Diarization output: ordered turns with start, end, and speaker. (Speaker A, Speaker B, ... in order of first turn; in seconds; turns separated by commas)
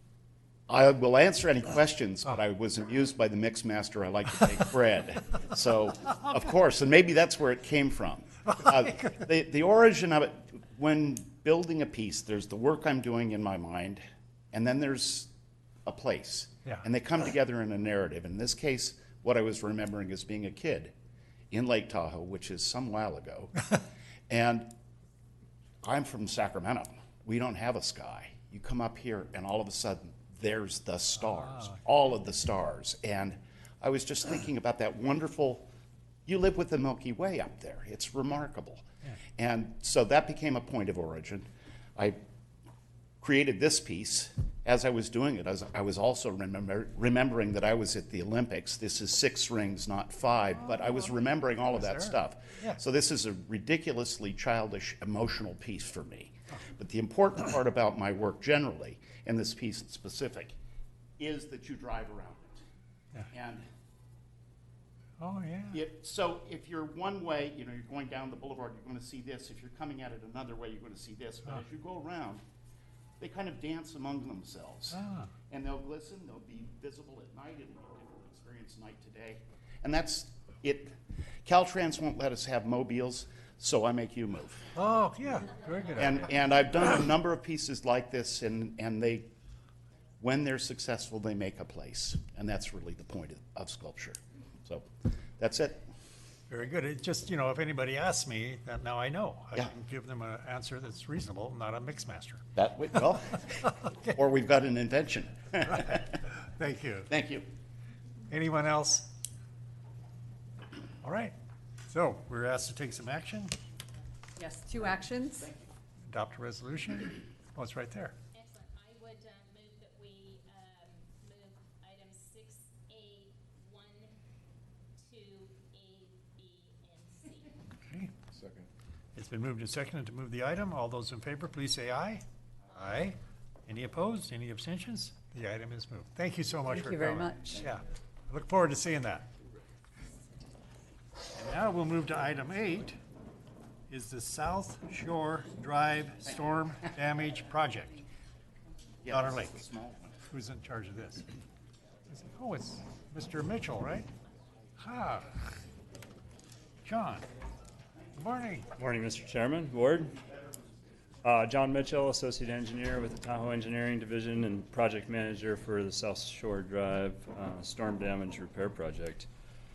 Speaker A: 0.7-15.3, Speaker B: 8.6-9.1, Speaker A: 15.8-20.9, Speaker A: 21.5-23.7, Speaker A: 24.3-24.7, Speaker A: 25.8-35.7, Speaker B: 31.2-31.8, Speaker A: 36.2-38.8, Speaker A: 39.4-42.2, Speaker A: 43.2-60.6, Speaker B: 50.7-51.1, Speaker B: 51.8-52.8, Speaker A: 61.2-62.6, Speaker A: 63.3-63.6, Speaker B: 65.2-65.8, Speaker A: 65.7-72.4, Speaker A: 73.2-80.9, Speaker B: 74.9-75.3, Speaker A: 81.4-84.7, Speaker B: 84.8-86.2, Speaker A: 86.0-89.3, Speaker A: 90.2-94.9, Speaker A: 95.4-95.8, Speaker B: 96.5-102.4, Speaker A: 102.6-106.2, Speaker B: 105.9-107.1, Speaker A: 107.1-107.4, Speaker B: 108.3-109.1, Speaker B: 111.0-111.3, Speaker B: 111.9-113.5, Speaker C: 114.4-115.5, Speaker B: 116.1-118.2, Speaker D: 118.3-124.1, Speaker D: 125.0-127.5, Speaker B: 127.9-128.2, Speaker B: 129.2-139.3, Speaker C: 136.7-137.6, Speaker B: 141.3-143.0, Speaker B: 143.9-148.0, Speaker A: 149.0-150.1, Speaker B: 149.1-149.6, Speaker B: 150.3-151.3, Speaker B: 152.1-154.1, Speaker B: 154.8-155.6, Speaker B: 156.8-157.2, Speaker B: 158.2-158.7, Speaker E: 158.7-160.2, Speaker E: 161.2-169.3